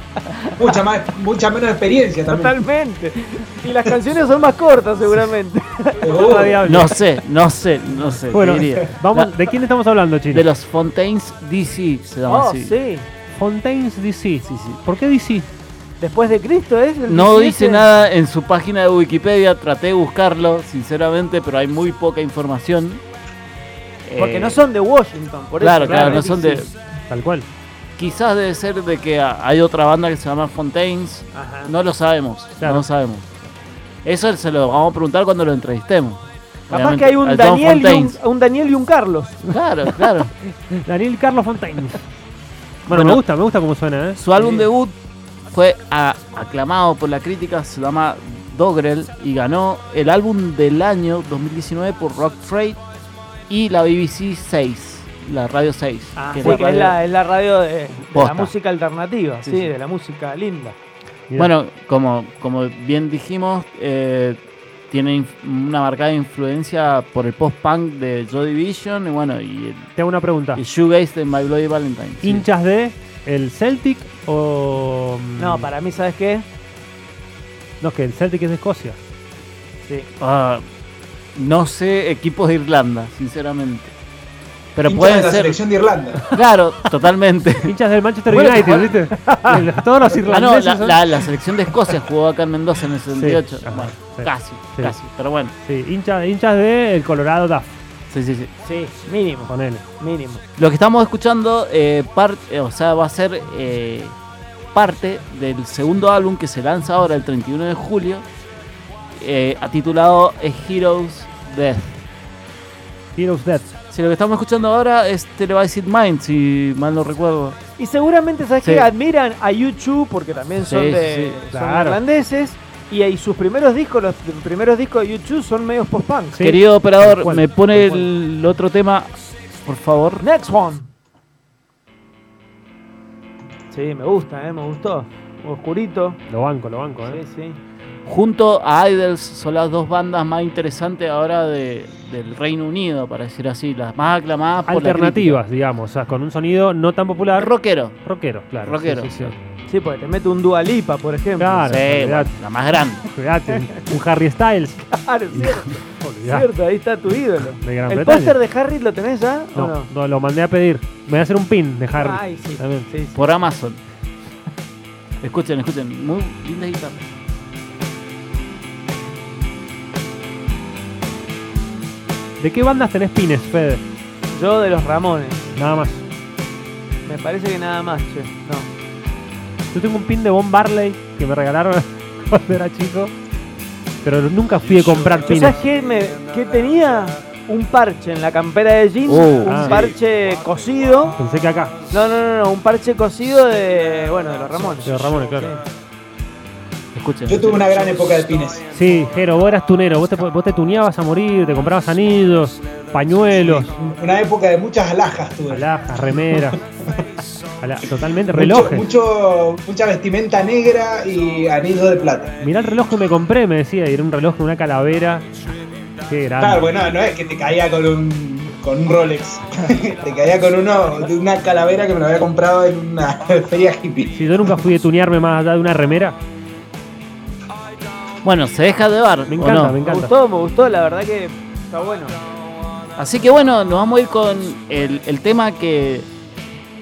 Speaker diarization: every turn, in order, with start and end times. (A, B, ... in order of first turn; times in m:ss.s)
0:00.2-0:00.8 A
0:00.6-0:02.6 B
0:02.3-0:06.2 A
0:06.0-0:06.6 B
0:06.2-0:07.0 C
0:06.6-0:09.3 D
0:08.3-0:10.4 C
0:10.3-0:12.7 D
0:12.3-0:13.1 A
0:13.3-0:15.5 C
0:14.5-0:14.8 D
0:16.0-0:17.8 A
0:17.1-0:23.0 D
0:24.0-0:24.6 D
0:24.2-0:26.7 A
0:25.6-0:26.7 D
0:25.8-0:26.2 C
0:27.1-0:27.5 C
0:28.0-0:33.3 D
0:31.3-0:31.7 A
0:34.0-0:38.2 D
0:36.7-0:39.4 A
0:39.5-0:40.3 D
0:40.5-0:42.0 C
0:42.9-0:44.2 C
0:42.9-0:43.2 D
0:44.2-0:45.0 D
0:44.3-0:44.7 A
0:45.5-0:52.8 D
0:53.5-0:57.0 D
0:56.2-1:00.8 A
0:58.1-0:58.5 D
0:59.4-0:59.7 D
1:01.4-1:04.4 D
1:04.9-1:09.9 D
1:10.0-1:10.6 C
1:10.6-1:12.4 D
1:12.2-1:15.7 C
1:15.4-1:16.4 A
1:17.8-1:19.0 C
1:20.2-1:20.6 D
1:21.4-1:23.9 D
1:24.8-1:25.6 D
1:24.8-1:26.2 B
1:26.3-1:27.7 D
1:27.7-1:31.0 C
1:28.3-1:29.4 D
1:30.3-1:35.5 D
1:33.1-1:35.0 C
1:35.6-1:37.7 C
1:38.1-1:38.5 D
1:38.7-1:40.4 A
1:39.5-1:39.8 C
1:40.6-1:44.2 D
1:44.7-1:48.2 D
1:49.2-1:52.0 D
1:53.2-1:53.8 C
1:53.9-1:57.6 D
1:57.8-2:06.4 A
1:58.6-1:58.9 D
2:00.6-2:01.4 D
2:01.5-2:02.0 C
2:06.3-2:08.1 C
2:06.4-2:10.2 D
2:10.2-2:10.9 A
2:13.7-2:16.2 A
2:16.3-2:17.2 C
2:17.0-2:17.6 A
2:18.1-2:25.4 D
2:24.7-2:29.4 C
2:27.3-2:28.0 D
2:28.6-2:29.4 D
2:29.7-2:31.7 A
2:31.4-2:32.4 C
2:31.7-2:33.0 D
2:33.0-2:34.8 C
2:34.8-2:39.9 A
2:36.0-2:36.5 C
2:37.6-2:38.4 C
2:39.5-2:42.9 C
2:42.0-2:43.2 A
2:43.2-2:43.8 D
2:45.2-2:47.1 D
2:52.4-2:53.8 C
2:54.3-2:55.5 A
2:55.6-2:56.0 C
2:57.0-2:58.7 A
2:59.7-3:03.1 C
3:04.0-3:05.6 C
3:05.2-3:11.2 A
3:09.1-3:09.9 D
3:09.5-3:09.8 C
3:11.2-3:11.8 C
3:11.9-3:15.6 A
3:14.8-3:15.5 C
3:16.9-3:17.8 D
3:17.3-3:18.7 B
3:18.7-3:23.7 C
3:23.4-3:25.7 B
3:25.5-3:26.6 C
3:27.6-3:28.9 C
3:28.3-3:32.3 B
3:32.4-3:35.2 C
3:36.1-3:36.8 C
3:36.4-3:44.2 B
3:44.2-3:46.2 C
3:48.2-3:49.8 D
3:49.3-3:50.1 C
3:49.8-3:52.2 A
3:53.0-3:56.1 D